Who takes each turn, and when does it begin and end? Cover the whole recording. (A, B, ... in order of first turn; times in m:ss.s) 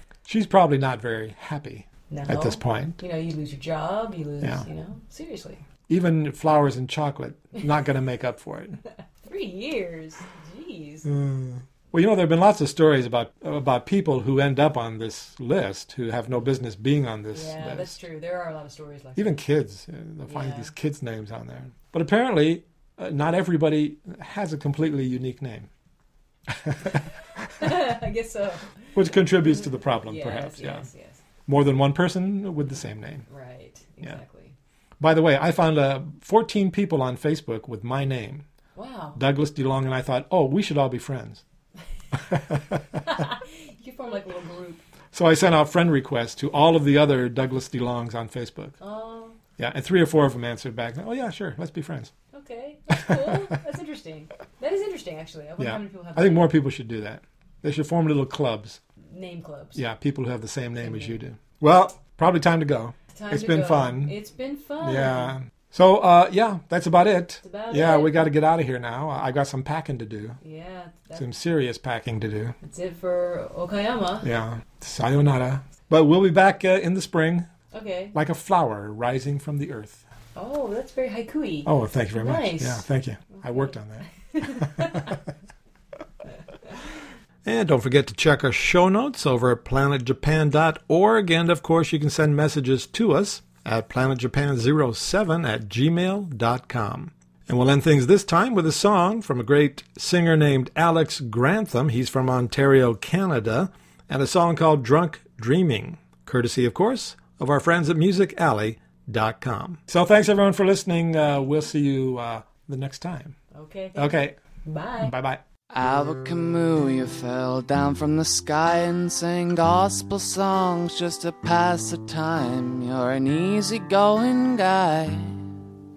0:00.2-0:03.0 A
0:02.1-0:05.6 B
0:05.9-0:08.8 A
0:09.2-0:11.1 B
0:11.0-0:18.0 A
0:17.3-0:19.4 B
0:19.2-0:25.7 A
0:20.2-0:20.7 B
0:26.5-0:27.7 A
0:27.6-0:31.2 B
0:28.9-0:30.9 A
0:31.4-0:33.2 A
0:33.3-0:34.5 B
0:35.0-0:38.4 A
0:38.7-0:39.2 B
0:39.1-0:41.4 A
0:42.2-0:43.0 A
0:43.0-0:44.8 B
0:45.1-0:48.8 A
0:48.8-0:49.4 B
0:49.6-0:52.1 A
0:52.3-0:56.5 B
0:53.0-0:53.3 A
0:55.6-0:58.8 A
0:59.1-0:59.8 B
0:59.7-1:04.2 A
1:00.8-1:01.2 B
1:03.1-1:05.3 B
1:04.8-1:10.4 A
1:07.4-1:08.2 B
1:10.4-1:11.2 B
1:11.1-1:12.6 A
1:12.6-1:14.3 B
1:14.2-1:17.5 A
1:17.7-1:18.2 B
1:18.1-1:20.0 A
1:20.3-1:22.8 B
1:21.6-1:25.2 A
1:23.3-1:25.2 B
1:27.4-1:53.4 A
1:53.5-1:55.1 B
1:53.9-1:54.4 A
1:55.0-1:55.4 A
1:55.7-2:05.4 C